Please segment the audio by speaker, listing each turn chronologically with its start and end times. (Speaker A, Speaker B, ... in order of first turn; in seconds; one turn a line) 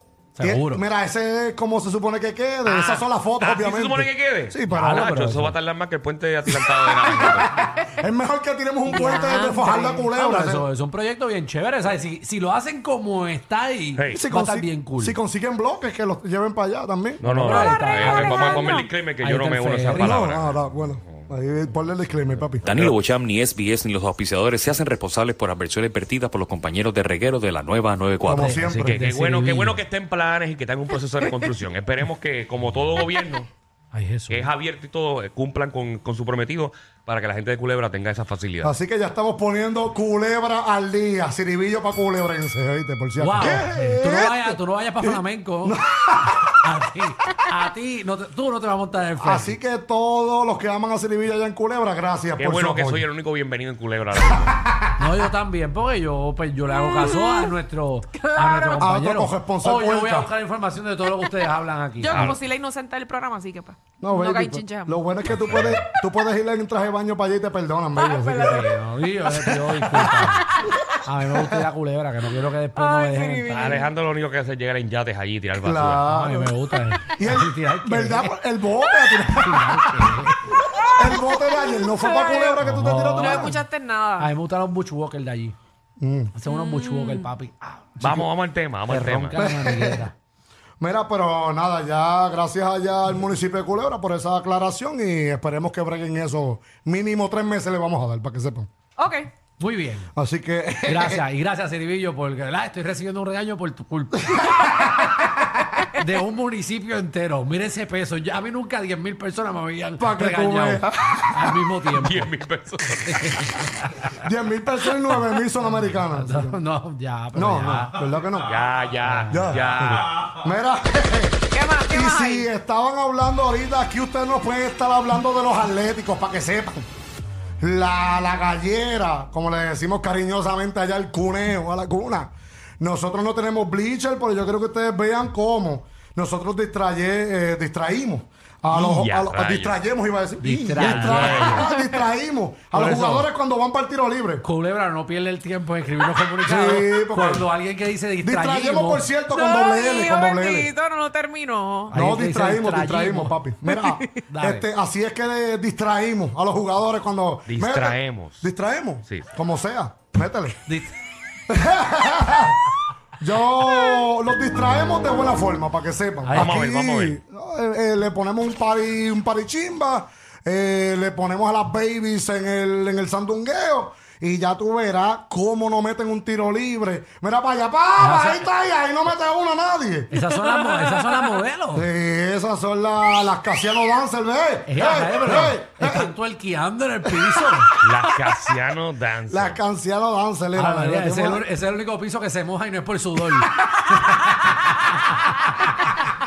Speaker A: 0.3-0.8
Speaker B: 0.4-5.1
Speaker C: 2.6-7.5
Speaker A: 4.7-5.5
Speaker B: 6.5-10.7
Speaker D: 9.0-10.0
Speaker A: 10.1-15.2
Speaker C: 13.9-14.2
Speaker B: 14.1-17.2
Speaker C: 17.2-21.3
Speaker A: 17.2-20.1
Speaker D: 17.7-18.9
Speaker B: 19.9-22.7
Speaker E: 22.6-28.6
Speaker C: 22.7-23.0
Speaker B: 28.2-29.0
Speaker A: 28.3-29.8
Speaker C: 28.8-33.5
Speaker A: 33.9-34.4
Speaker C: 34.3-38.7
Speaker B: 38.6-46.6
Speaker A: 43.2-45.8
Speaker A: 46.5-49.5
Speaker B: 49.2-53.1
Speaker C: 52.4-54.6
Speaker B: 54.3-54.9
Speaker A: 55.0-62.3
Speaker D: 56.8-57.3
Speaker D: 58.1-58.8
Speaker B: 58.8-60.3
Speaker D: 62.0-65.1
Speaker C: 62.1-62.4
Speaker B: 64.0-68.7
Speaker C: 65.3-65.8
Speaker D: 67.9-68.6
Speaker A: 68.4-70.5
Speaker B: 69.2-70.4
Speaker D: 70.4-70.7
Speaker A: 71.0-73.8
Speaker D: 72.8-73.9
Speaker C: 73.5-76.0
Speaker B: 75.6-76.5
Speaker A: 76.0-78.4
Speaker B: 77.2-80.2
Speaker A: 79.2-80.4
Speaker B: 80.8-83.6
Speaker D: 81.8-82.6
Speaker A: 82.6-83.5
Speaker D: 83.2-84.3
Speaker A: 84.2-85.5
Speaker B: 86.0-86.3
Speaker A: 86.3-88.3
Speaker D: 86.5-87.3
Speaker C: 88.0-89.3
Speaker A: 88.8-90.1
Speaker B: 89.3-90.1
Speaker B: 90.8-98.7
Speaker D: 99.0-99.3
Speaker A: 99.6-100.1
Speaker B: 100.2-101.2
Speaker A: 100.8-104.8
Speaker A: 105.8-112.3
Speaker B: 110.0-111.6
Speaker C: 111.9-113.4
Speaker A: 113.0-114.2
Speaker B: 114.2-116.6
Speaker A: 115.6-118.1
Speaker B: 117.3-118.6
Speaker C: 118.4-120.3
Speaker A: 119.0-119.6
Speaker B: 119.3-126.8
Speaker D: 121.5-122.5
Speaker B: 127.6-144.4
Speaker C: 138.7-139.8
Speaker A: 140.4-141.6
Speaker C: 140.8-141.6
Speaker A: 142.7-143.3
Speaker A: 144.4-149.1
Speaker B: 146.4-147.5
Speaker B: 148.2-150.7
Speaker D: 149.3-151.9
Speaker A: 151.9-153.4
Speaker B: 151.9-160.6
Speaker D: 153.7-154.0
Speaker A: 154.3-154.7
Speaker C: 157.4-158.5
Speaker A: 160.7-160.9
Speaker B: 161.5-162.6
Speaker B: 163.2-180.2
Speaker A: 166.2-166.6
Speaker C: 166.3-167.2
Speaker A: 178.0-178.5
Speaker A: 180.1-181.9
Speaker B: 181.7-186.1
Speaker A: 184.7-187.7
Speaker B: 187.0-187.7
Speaker C: 187.8-189.6
Speaker B: 189.3-191.4
Speaker A: 190.5-195.4